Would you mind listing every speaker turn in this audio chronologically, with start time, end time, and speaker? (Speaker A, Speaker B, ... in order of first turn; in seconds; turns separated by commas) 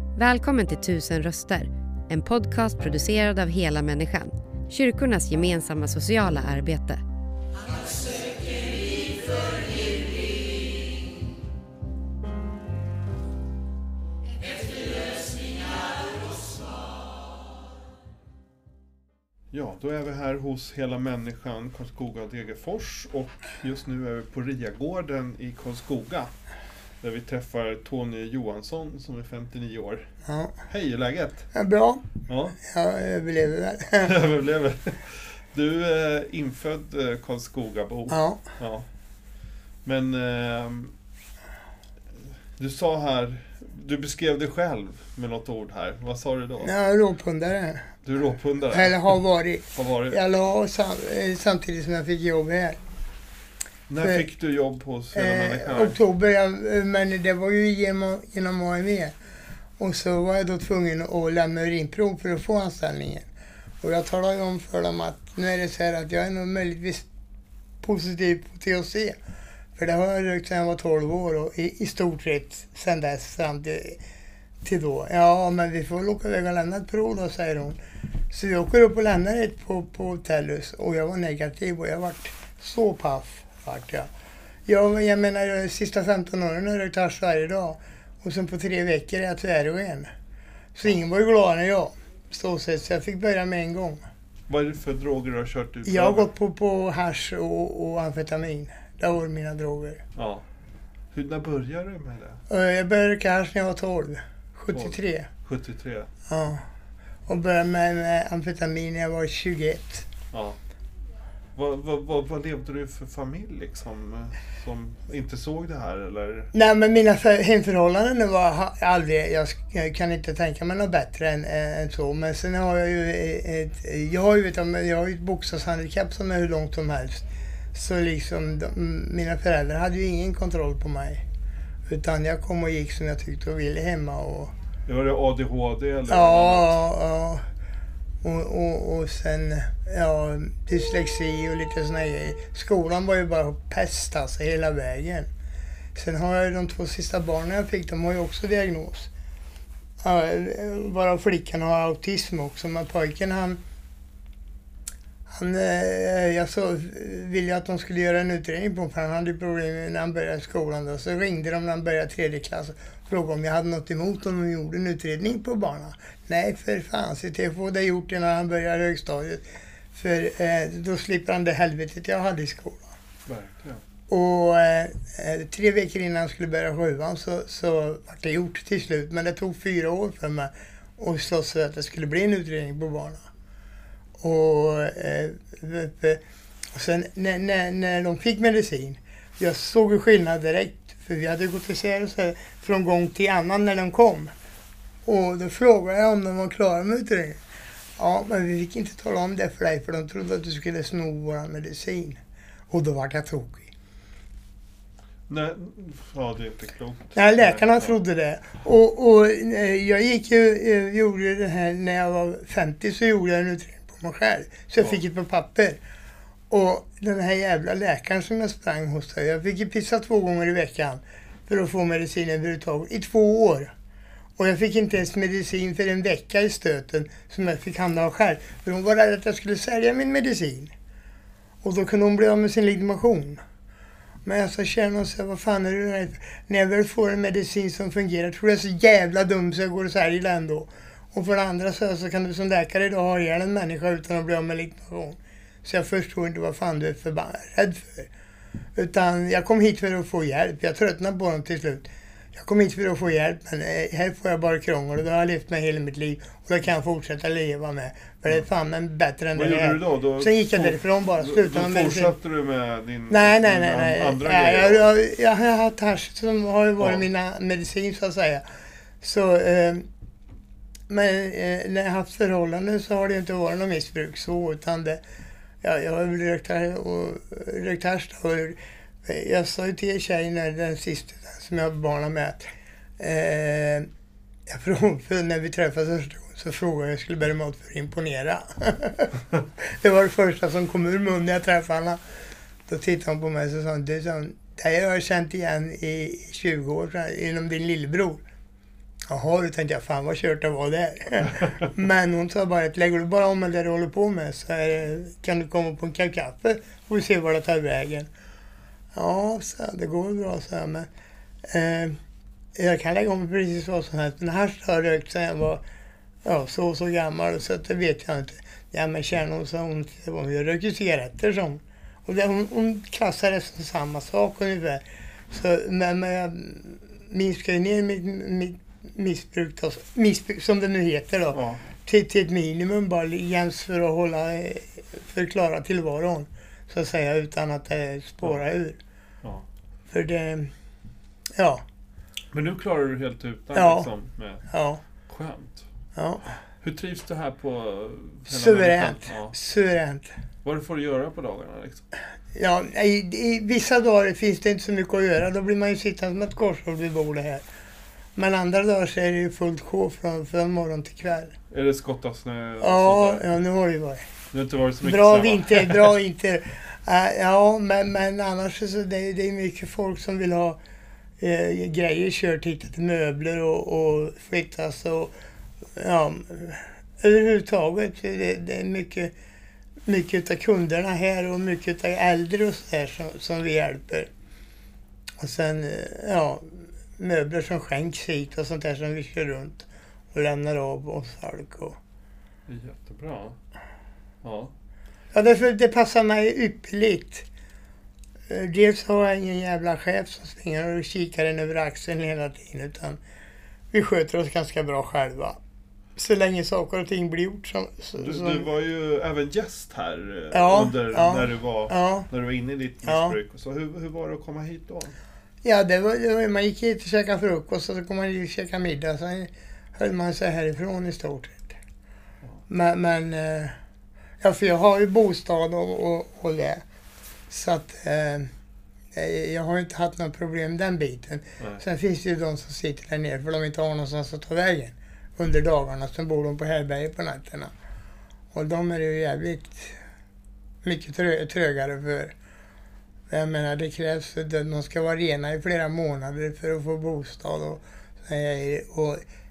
Speaker A: 0.2-7.0, Speaker B: 19.5-26.3, Speaker B: 27.0-30.1, Speaker C: 30.2-30.6, Speaker B: 30.7-31.5, Speaker C: 31.5-34.1, Speaker B: 32.3-32.6, Speaker B: 34.0-38.9, Speaker C: 38.1-38.5, Speaker B: 39.8-40.9, Speaker B: 42.6-46.7, Speaker C: 46.6-47.9, Speaker B: 48.0-49.2, Speaker C: 48.7-52.8, Speaker B: 49.7-50.2, Speaker B: 53.9-56.0, Speaker C: 55.1-59.1, Speaker C: 59.8-63.3, Speaker C: 63.8-67.0, Speaker C: 67.8-69.2, Speaker C: 69.8-74.0, Speaker C: 74.6-77.8, Speaker C: 78.3-84.1, Speaker C: 84.7-90.1, Speaker C: 90.8-94.0, Speaker B: 94.5-96.3, Speaker C: 95.8-100.0, Speaker B: 100.2-100.5, Speaker B: 101.1-102.4, Speaker C: 102.5-105.3, Speaker B: 104.7-106.1, Speaker C: 106.3-106.7, Speaker C: 107.3-110.1, Speaker B: 110.3-110.6, Speaker B: 111.5-116.5, Speaker C: 116.5-131.2, Speaker C: 131.9-134.5, Speaker B: 134.9-136.8, Speaker C: 136.1-137.4, Speaker C: 138.2-145.3, Speaker C: 145.9-149.1, Speaker C: 150.0-153.6, Speaker C: 155.3-172.9, Speaker B: 173.3-173.8, Speaker C: 174.1-183.2, Speaker C: 184.2-186.2, Speaker C: 186.8-194.3, Speaker C: 195.1-197.4, Speaker C: 198.0-203.7, Speaker B: 205.3-208.0, Speaker C: 207.2-215.8, Speaker C: 216.5-223.7, Speaker C: 224.4-230.7, Speaker C: 231.6-233.4, Speaker C: 234.2-248.1, Speaker C: 248.8-262.1, Speaker B: 259.3-264.9, Speaker C: 263.1-268.4, Speaker B: 266.8-267.1, Speaker C: 269.0-269.9, Speaker C: 270.9-275.0, Speaker C: 275.6-282.4, Speaker C: 283.0-283.9, Speaker C: 284.5-292.0, Speaker C: 292.7-298.2, Speaker C: 299.1-308.1, Speaker C: 308.9-310.9, Speaker C: 311.5-312.0, Speaker C: 312.6-315.6, Speaker C: 316.2-338.8, Speaker B: 331.3-331.7, Speaker C: 339.9-340.5, Speaker C: 341.4-341.6, Speaker B: 342.3-344.4, Speaker C: 343.5-343.9, Speaker C: 344.5-344.8, Speaker B: 345.1-345.7, Speaker C: 346.0-346.3, Speaker B: 346.6-349.4, Speaker C: 348.3-350.1, Speaker B: 350.4-351.9, Speaker C: 352.3-357.4, Speaker C: 358.2-361.4, Speaker B: 361.5-363.3, Speaker C: 362.6-364.1, Speaker B: 364.3-365.9, Speaker C: 364.8-370.6, Speaker C: 371.2-375.1, Speaker C: 375.8-379.1, Speaker C: 379.9-384.1, Speaker C: 385.2-391.8, Speaker B: 392.5-393.4, Speaker B: 394.2-394.5, Speaker C: 395.1-397.3, Speaker C: 398.3-403.0, Speaker C: 403.7-405.4, Speaker C: 406.0-408.5, Speaker B: 408.0-415.0, Speaker C: 410.3-412.1, Speaker C: 412.8-413.2, Speaker C: 415.4-421.6, Speaker C: 422.5-423.6, Speaker C: 424.2-426.6, Speaker C: 427.3-428.3, Speaker C: 428.9-437.5, Speaker C: 438.3-439.8, Speaker C: 440.6-442.1, Speaker C: 443.1-449.0